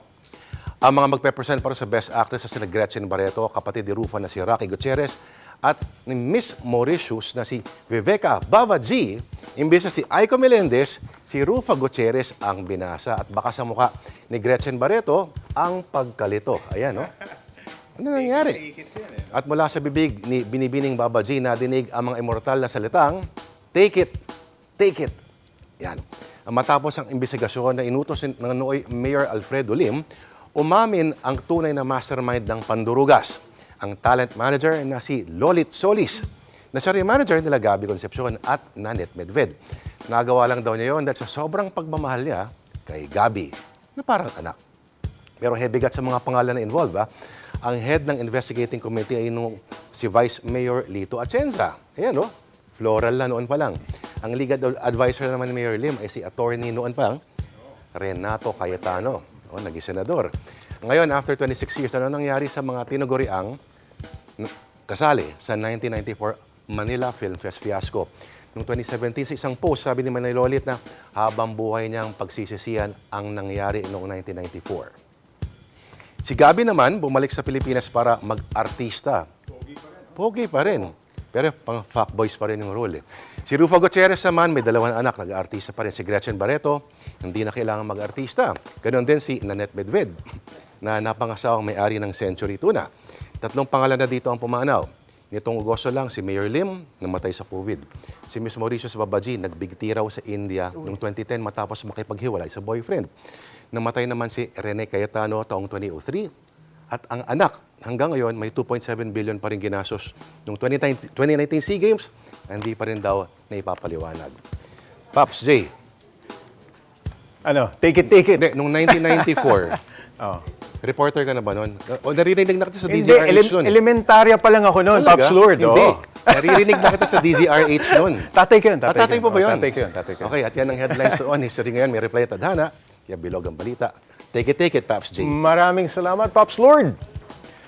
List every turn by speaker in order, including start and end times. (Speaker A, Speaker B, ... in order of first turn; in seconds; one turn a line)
Speaker A: 0.8-17.1
Speaker A: 18.0-18.7
Speaker A: 19.3-23.2
Speaker A: 23.7-24.2
Speaker A: 24.8-25.2
Speaker A: 25.8-30.0
Speaker A: 30.6-39.5
Speaker A: 40.1-44.6
Speaker A: 45.4-47.1
Speaker A: 47.6-57.2
Speaker A: 58.0-60.3
Speaker A: 60.8-63.6
Speaker A: 64.4-74.9
Speaker A: 76.2-79.3
Speaker A: 80.2-90.2
Speaker A: 90.8-92.9
Speaker A: 93.4-103.1
Speaker A: 103.7-106.3
Speaker A: 106.9-114.4
Speaker A: 115.1-115.7
Speaker B: 117.5-119.5
Speaker A: 118.3-119.8
Speaker A: 120.8-123.8
Speaker B: 122.9-130.3
Speaker A: 124.9-128.3
Speaker A: 128.8-135.3
Speaker B: 135.2-137.0